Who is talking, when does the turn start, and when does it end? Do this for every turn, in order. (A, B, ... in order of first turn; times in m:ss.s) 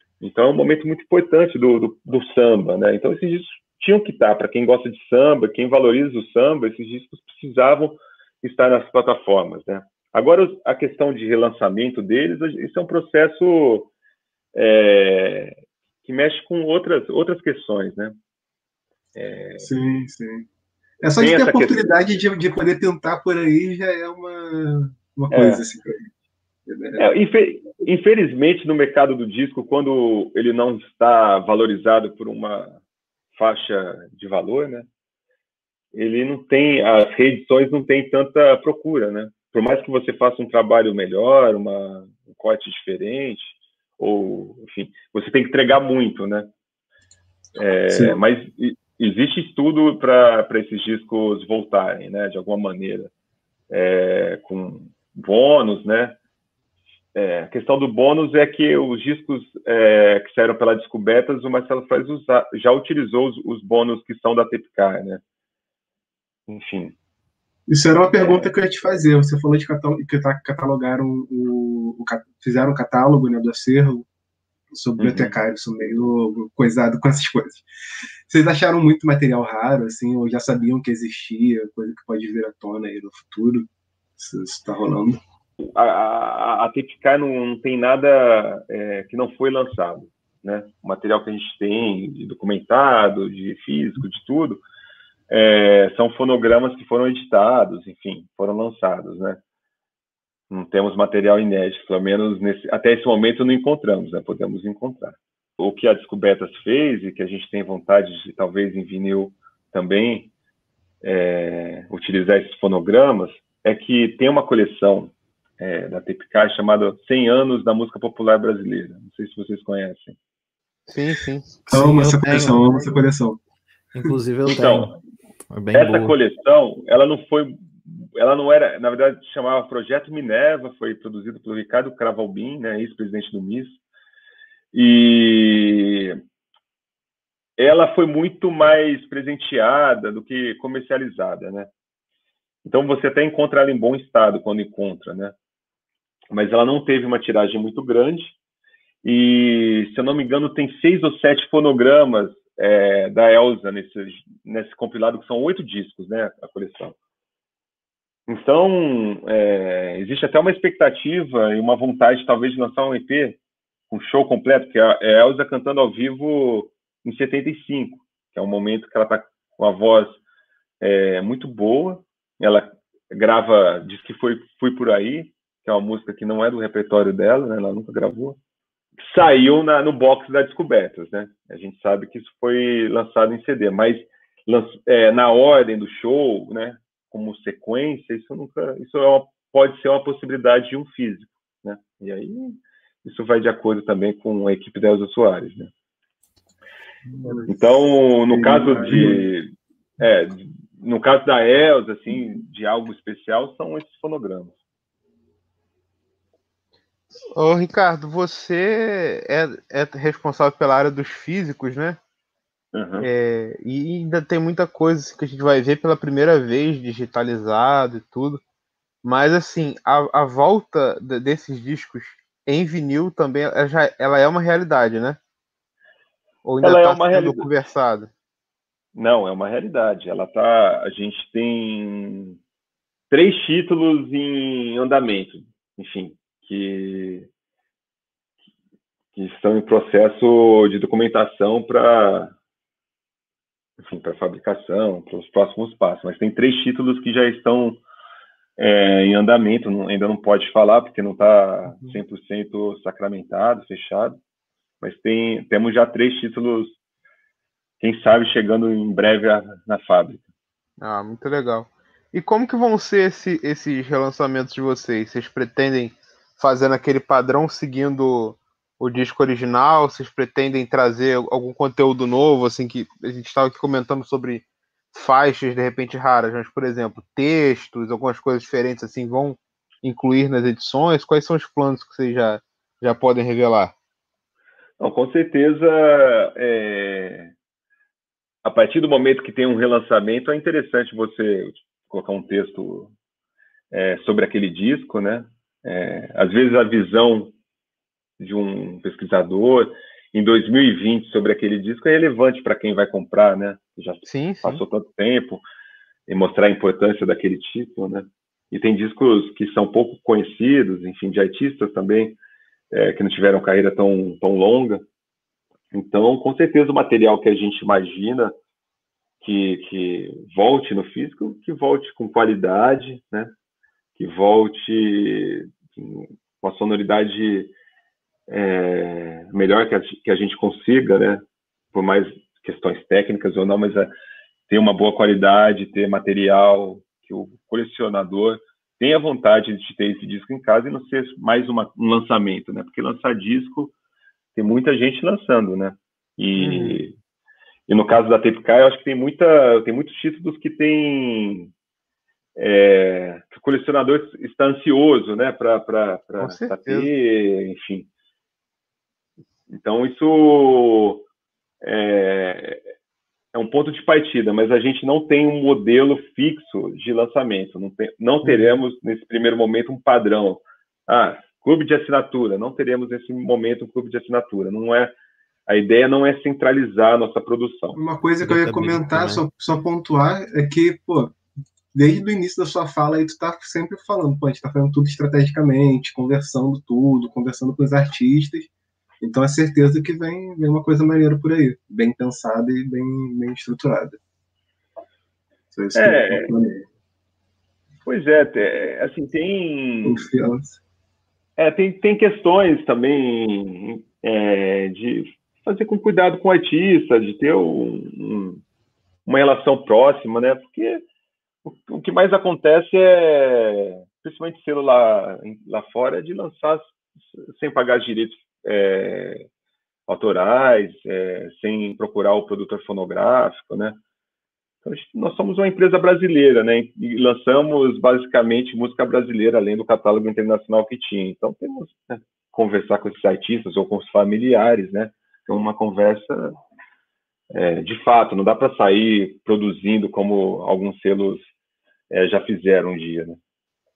0:00.2-0:13.9 A
0:14.5-0:18.1 A
0:19.1-0:19.7 A
0:19.6-0:20.5 B
0:21.0-0:26.1 B
0:21.2-0:21.9 A
0:25.3-0:25.6 A
0:26.7-0:27.0 B
0:27.0-0:32.8 A
0:33.3-0:34.9 A
0:35.9-0:46.5 A
0:47.6-0:53.1 A
0:47.9-0:48.2 B
0:53.7-0:56.2 A
0:57.1-1:05.2 A
1:06.5-1:06.9 A
1:07.7-1:14.1 B
1:08.1-1:08.5 A
1:14.7-1:17.6 B
1:15.0-1:15.4 A
1:18.3-1:25.2 B
1:25.6-1:34.6 A
1:35.3-1:39.4 A
1:40.5-1:50.3 A
1:51.0-2:00.2 A
2:00.9-2:01.6 C
2:01.7-2:02.8 D
2:01.7-2:03.4 B
2:03.9-2:05.0 D
2:04.4-2:05.0 A
2:05.5-2:06.2 D
2:05.7-2:13.8 A
2:14.7-2:16.2 A
2:17.6-2:21.7 A
2:22.6-2:25.3 A
2:26.3-2:28.3 A
2:29.0-2:36.9 A
2:38.3-2:43.4 A
2:43.9-2:50.2 A
2:50.8-2:58.4 A
2:59.0-3:15.7 A
3:17.1-3:17.7 B
3:17.5-3:19.5 A
3:18.3-3:19.3 B
3:20.0-3:24.6 A
3:27.3-3:32.0 C
3:32.7-3:33.1 A
3:33.0-3:38.4 C
3:39.0-3:45.2 C
3:46.4-3:48.1 C
3:46.6-3:47.5 A
3:48.9-3:52.4 A
3:53.1-3:57.3 A
3:59.1-4:02.3 A
4:03.8-4:07.8 A
4:08.6-4:14.2 A
4:14.8-4:16.7 A
4:17.8-4:20.2 A
4:20.8-4:43.7 C
4:44.8-4:47.3 A
4:48.4-4:52.9 A
4:53.7-4:57.3 A
4:58.2-5:05.4 A
5:04.1-5:04.6 C
5:06.1-5:12.2 A
5:12.7-5:14.8 A
5:15.7-5:18.3 A
5:19.2-5:23.3 A
5:24.0-5:27.5 A
5:28.3-5:33.9 A
5:34.5-5:43.7 A
5:44.3-5:46.9 A
5:46.4-5:46.8 C
5:47.7-5:51.5 A
5:52.4-5:57.9 A
5:56.2-5:56.9 C
5:59.5-6:01.0 A
6:01.6-6:02.6 A
6:03.3-6:14.9 A
6:15.5-6:17.8 A
6:17.8-6:21.1 B
6:18.2-6:19.2 D
6:21.7-6:28.5 B
6:29.0-6:34.0 B
6:35.5-6:36.6 B
6:35.7-6:36.3 A
6:37.8-6:40.1 A
6:39.8-6:40.6 B
6:41.4-6:48.4 A
6:49.0-6:50.8 A
6:51.4-6:59.3 A
6:59.9-7:03.8 A
7:04.6-7:16.3 A
7:17.3-7:21.3 A
7:21.9-7:23.2 A